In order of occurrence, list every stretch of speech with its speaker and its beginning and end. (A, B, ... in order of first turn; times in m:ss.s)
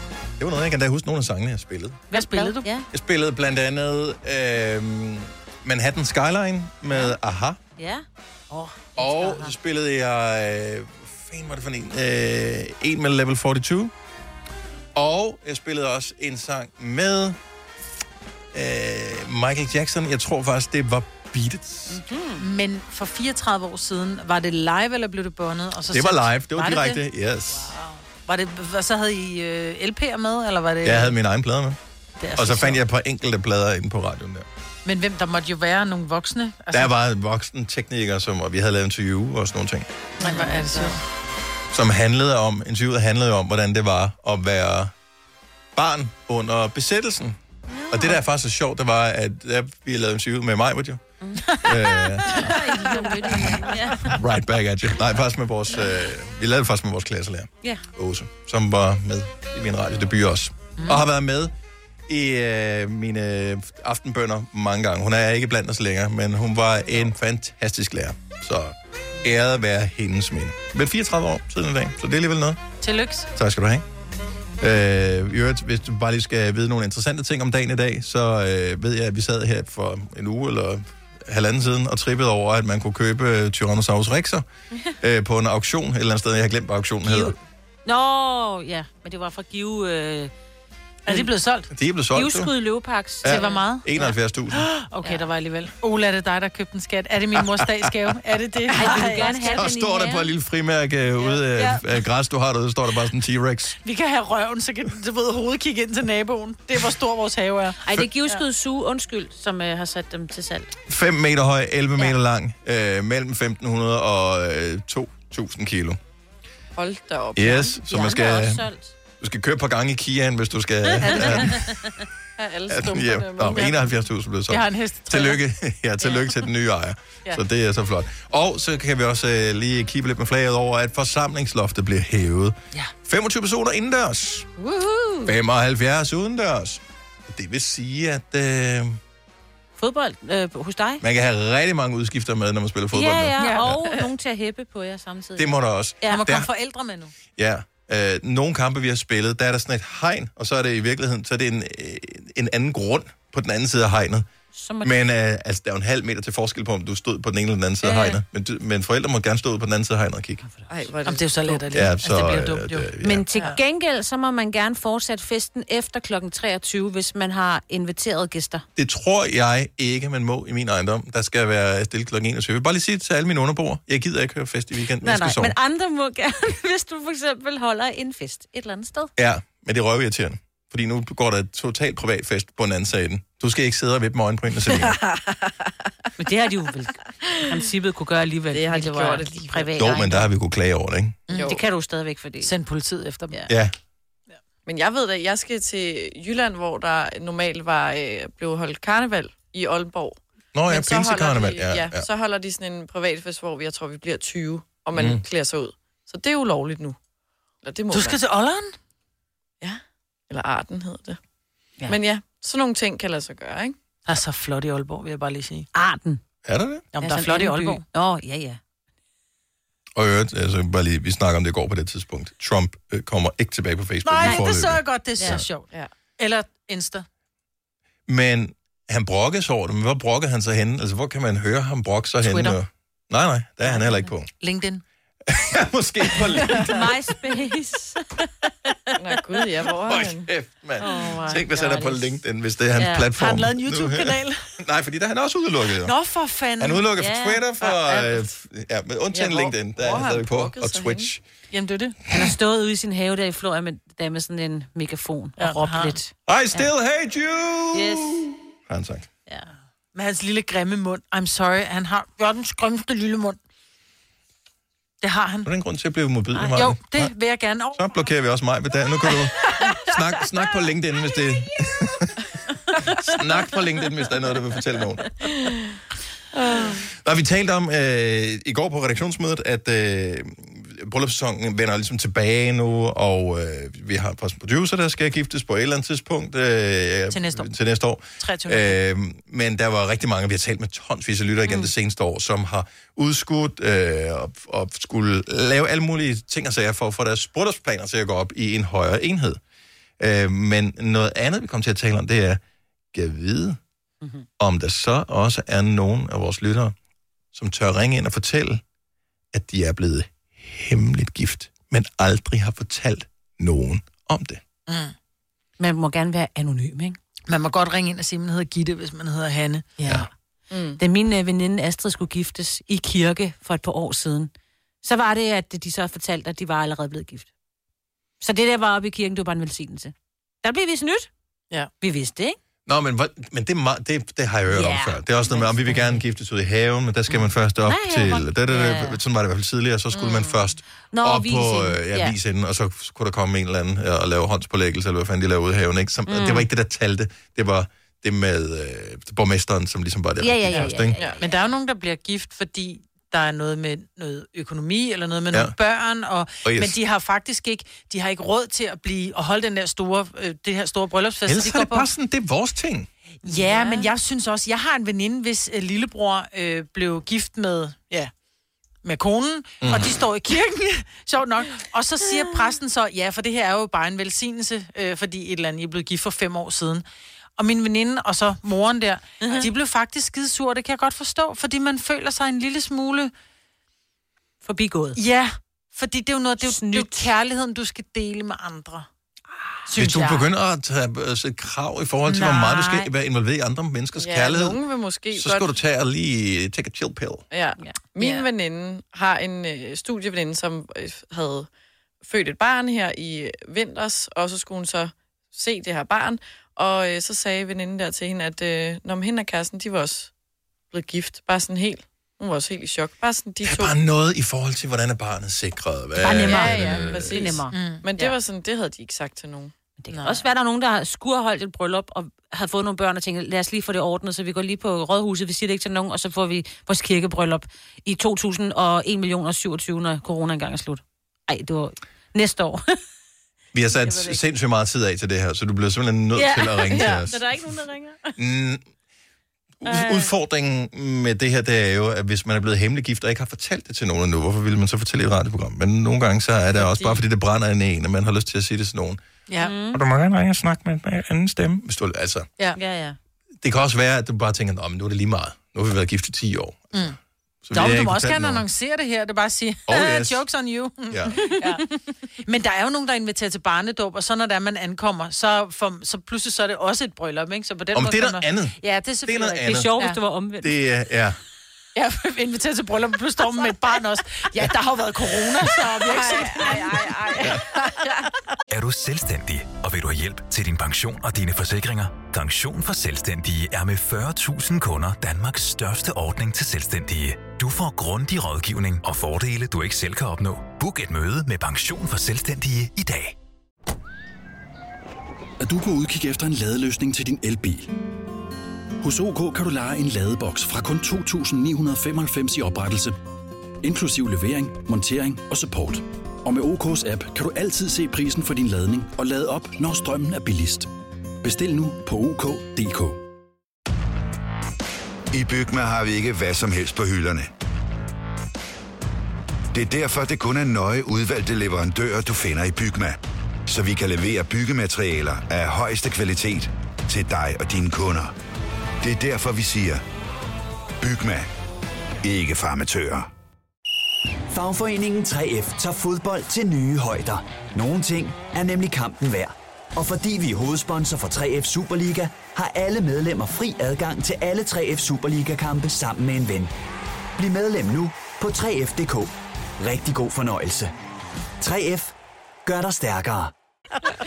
0:00.4-0:02.1 A
0:02.1-0:02.7 B
0:02.1-0:02.9 C
0:02.9-0:07.6 A
0:07.8-0:09.5 C
0:09.0-0:13.9 A
0:15.0-0:17.4 A
0:18.5-0:22.0 A
0:21.9-0:22.5 C
0:22.4-0:31.2 B
0:25.9-0:27.7 A
0:30.8-0:31.8 A
0:32.2-0:32.8 B
0:32.4-0:34.5 A
0:34.8-0:36.9 B
0:36.7-0:39.9 A
0:40.2-0:40.9 D
0:40.2-0:41.0 B
0:41.7-0:44.9 A
0:45.8-0:47.4 A
0:47.7-0:48.2 C
0:47.9-0:51.1 A
0:51.2-0:54.2 C
0:51.4-0:53.9 B
0:51.6-0:52.8 A
0:54.1-1:01.5 A
1:00.8-1:01.0 B
1:02.1-1:12.6 A
1:12.8-1:13.3 B
1:13.4-1:13.8 A
1:14.6-1:24.4 A
1:25.0-1:27.4 A
1:27.0-1:30.3 C
1:31.1-1:31.7 B
1:31.7-1:32.5 A
1:32.1-1:34.0 C
1:33.2-1:34.7 A
1:33.2-1:39.6 B
1:37.4-1:37.8 A
1:38.7-1:40.3 C
1:38.8-1:43.8 A
1:43.8-1:48.4 B
1:47.8-1:50.7 C
1:50.9-1:56.0 A
1:56.8-1:57.8 D
1:57.4-1:58.7 A
1:57.8-1:59.0 C
1:59.2-2:01.7 A
2:00.9-2:02.0 C
2:02.4-2:03.7 D
2:02.7-2:14.5 A
2:03.5-2:03.8 B
2:04.5-2:05.4 B
2:14.6-2:15.3 C
2:15.2-2:19.0 A
2:19.8-2:21.0 C
2:21.0-2:23.8 A
2:22.9-2:26.3 C
2:23.4-2:23.7 B
2:25.4-2:26.5 A
2:26.1-2:27.1 B
2:27.4-2:34.3 A
2:34.5-2:35.0 C
2:34.8-2:40.4 A
2:37.8-2:38.2 C
2:40.4-2:40.9 C
2:40.7-2:41.6 D
2:41.0-2:43.6 B
2:41.7-2:43.3 A
2:43.0-2:48.6 C
2:48.8-2:55.6 A
2:55.0-2:59.1 C
2:59.2-3:05.0 A
3:04.9-3:05.5 D
3:06.2-3:10.3 C
3:08.5-3:09.8 D
3:09.8-3:11.2 A
3:11.3-3:11.6 B
3:11.3-3:11.6 D
3:11.4-3:12.5 C
3:12.4-3:13.4 B
3:13.5-3:13.8 A
3:14.7-3:27.0 D
3:20.5-3:22.1 A
3:25.0-3:25.2 A
3:27.6-3:28.2 D
3:27.9-3:28.7 B
3:29.6-3:31.2 D
3:31.9-3:33.8 D
3:34.1-3:35.7 B
3:35.7-3:36.2 C
3:36.4-3:36.9 A
3:36.9-3:37.8 B
3:37.0-3:38.6 C
3:40.0-3:45.4 A
3:44.0-3:47.1 B
3:44.2-3:44.5 C
3:45.2-3:45.4 C
3:48.1-3:54.3 A
3:52.2-3:52.6 B
3:54.4-3:54.8 B
3:55.3-3:56.9 A
3:56.2-3:56.6 B
3:56.6-3:58.0 C
3:58.7-3:59.0 C
3:59.0-4:00.3 D
3:59.9-4:05.9 A
4:00.8-4:02.0 C
4:00.8-4:01.8 B
4:02.8-4:03.1 C
4:03.2-4:04.4 B
4:05.8-4:06.9 B
4:06.6-4:11.2 A
4:07.0-4:07.5 C
4:07.6-4:08.2 B
4:09.1-4:11.1 D
4:11.5-4:12.0 B
4:12.1-4:16.7 C
4:15.4-4:16.0 B
4:16.3-4:19.1 A
4:17.7-4:18.3 C
4:20.0-4:23.4 B
4:25.0-4:25.5 B
4:25.4-4:27.1 A
4:26.3-4:26.7 C
4:26.5-4:28.0 B
4:27.7-4:32.2 A
4:33.0-4:35.0 A
4:36.4-4:36.8 D
4:37.0-4:59.4 A
4:47.1-4:47.5 B
4:48.2-4:48.8 B
4:51.5-4:51.7 C
5:00.0-5:02.4 A
5:02.9-5:03.6 A
5:04.4-5:06.8 A
5:07.3-5:08.6 A
5:09.3-5:14.4 A
5:14.7-5:15.0 B
5:15.6-5:17.0 C
5:17.3-5:20.0 B
5:20.5-5:20.8 D
5:20.8-5:24.3 C
5:24.8-5:27.3 C
5:28.2-5:31.1 C
5:31.8-5:32.4 C
5:32.7-5:51.0 A
5:34.5-5:35.9 C
5:37.6-5:39.0 C
5:40.9-5:42.2 C
5:46.1-5:46.5 C
5:50.2-5:51.2 C
5:50.5-6:01.9 B
5:51.0-5:51.2 D
5:56.4-5:56.8 A
6:01.3-6:02.9 A
6:03.2-6:08.1 B
6:03.2-6:03.9 C
6:08.8-6:16.8 B
6:09.6-6:10.0 A
6:17.4-6:23.1 B
6:19.2-6:19.5 C
6:24.4-6:25.0 C
6:25.0-6:28.9 B
6:26.4-6:27.1 C
6:29.7-6:30.3 B
6:29.8-6:34.6 A
6:32.1-6:32.9 B
6:34.0-6:35.6 D
6:35.1-6:37.2 A
6:37.3-6:41.5 D
6:37.6-6:38.1 C
6:42.0-6:50.1 D
6:50.7-6:53.8 D
6:53.4-6:57.3 A
6:56.0-6:58.2 C
6:56.2-6:59.5 D
6:57.5-6:57.8 B
6:59.8-7:12.6 C
6:59.9-7:00.3 B
7:13.5-7:17.2 A
7:13.7-7:14.2 C
7:16.1-7:18.2 C
7:16.7-7:17.0 D
7:18.2-7:18.6 A
7:19.6-7:29.0 A
7:19.6-7:20.1 C
7:29.3-7:29.5 B
7:29.4-7:29.8 C
7:29.7-7:32.3 A
7:32.6-7:33.0 C
7:33.4-7:36.9 A
7:37.4-7:38.4 A
7:37.5-7:41.6 B
7:39.7-7:40.2 A
7:40.9-7:41.2 A
7:41.2-7:41.6 C
7:42.2-7:50.0 B
7:47.7-7:49.8 A
7:49.4-7:50.6 C
7:50.4-7:51.2 A
7:51.8-7:57.9 B
7:56.0-7:57.3 D
7:58.5-8:13.2 E
8:15.4-8:17.7 F
8:18.8-8:23.0 F
8:23.6-8:30.7 F
8:31.2-8:33.0 F
8:35.1-8:37.3 G
8:39.5-8:48.1 G
8:48.8-8:49.8 G
8:50.8-8:51.3 G
8:52.0-8:53.1 G
8:54.3-9:06.5 H
9:07.2-9:10.7 H
9:11.4-9:13.3 H